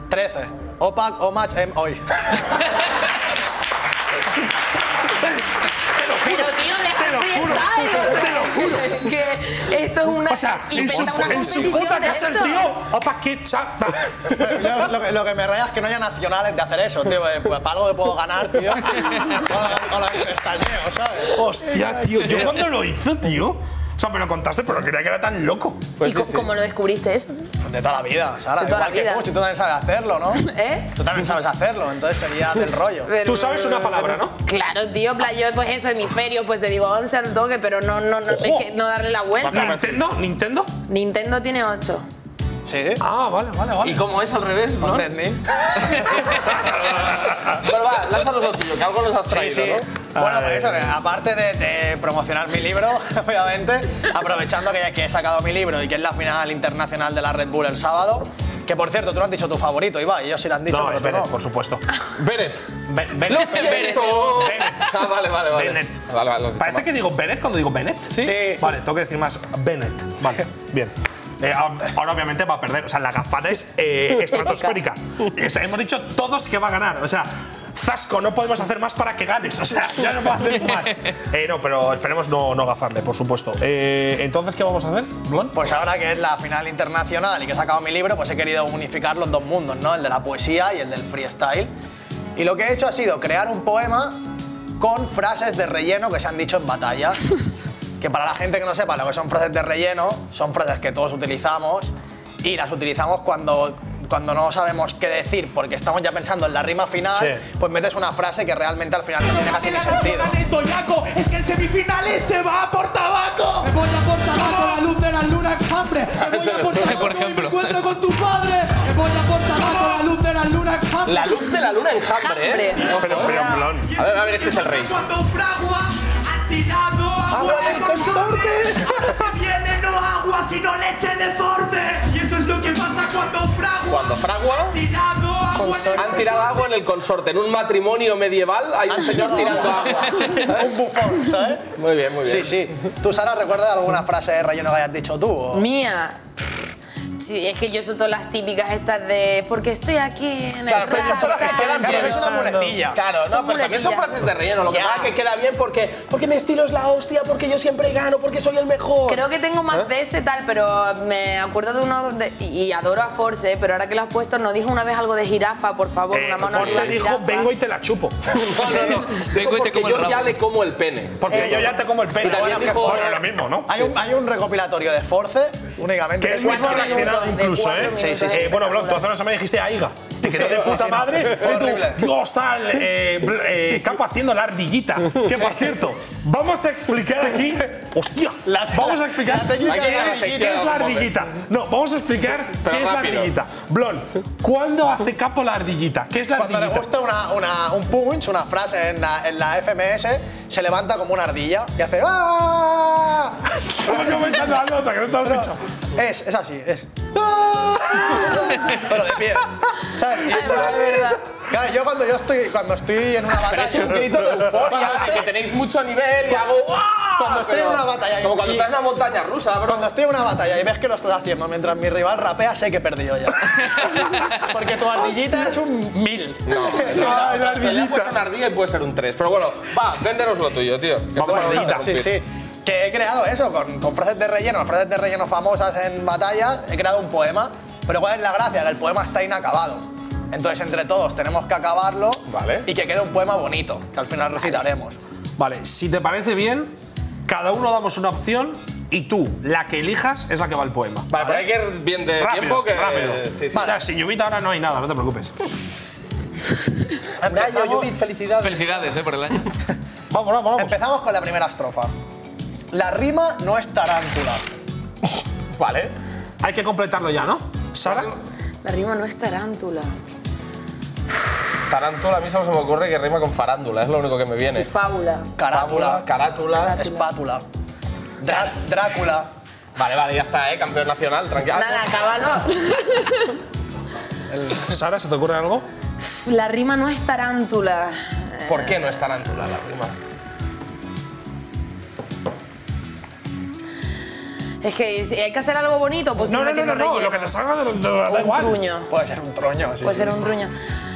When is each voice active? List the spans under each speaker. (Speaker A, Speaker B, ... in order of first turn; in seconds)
Speaker A: 0.1-2.0, 14.3-21.4, 27.6-33.1, 42.6-43.0, 44.8-45.4, 49.3-61.3, 68.1-68.7, 85.5-91.7, 92.3-94.2, 94.8-97.2, 98.0-101.9, 102.4-110.3, 114.3-114.9, 138.9-141.7, 142.2-145.7, 151.4-153.0, 154.7-155.1, 171.3-177.1, 177.9-178.6, 180.2-182.1, 185.2-185.9, 188.4-190.6, 196.3-204.2, 205.2-215.3, 217.0-218.7, 219.7-228.0, 231.2-245.0, 257.2-257.9, 260.5-261.9, 262.7-264.4, 275.4-276.1, 276.7-277.4, 278.2-279.3, 298.9-300.3
Speaker B: 5.2-9.1, 10.1-14.8, 21.3-25.9, 33.2-34.4, 38.3-38.7, 39.4-40.7, 43.0-44.0, 46.4-47.5, 50.1-50.9, 60.7-61.8, 62.9-66.0, 66.6-85.6, 107.1-107.4, 123.0-123.9, 150.7-152.8, 166.1-168.4, 171.2-173.8, 176.2-196.9, 203.8-205.6, 213.9-214.7, 226.8-227.9, 231.2-231.9, 245.4-246.7, 247.2-251.4, 252.2-255.3, 260.1-260.8, 266.4-268.1, 284.5-285.6, 296.2-298.6
Speaker C: 6.2-12.7, 26.0-27.4, 28.6-29.3, 30.3-30.9, 33.0-39.8, 40.9-42.0, 74.3-74.8, 122.2-123.7, 135.5-136.4, 145.5-146.2, 147.2-151.8, 153.2-154.1, 159.1-167.5, 171.3-171.6, 176.2-179.0, 210.3-211.2, 268.6-269.9, 274.6-275.3, 276.6-277.1, 281.5-283.3, 286.1-288.8, 294.6-297.3, 298.1-298.9, 299.8-300.5
Speaker D: 26.0-26.5, 39.4-40.0, 43.8-45.1, 45.9-49.8, 62.2-62.6, 63.2-66.9, 116.2-117.1, 121.0-124.9, 127.3-128.8, 133.9-134.8, 136.0-140.6, 141.8-142.7, 150.7-159.9, 166.5-166.9, 168.3-173.2, 189.6-191.2, 192.6-193.3, 213.5-219.9, 226.4-232.1, 242.3-242.7, 251.1-253.7, 257.2-258.9, 265.6-265.9, 267.8-268.1, 271.7-274.7, 275.5-276.8, 279.8-282.1, 288.5-289.9
Speaker E: 109.2-121.5, 122.8-136.6
Speaker F: 116.8-117.7, 168.7-170.3, 258.4-259.5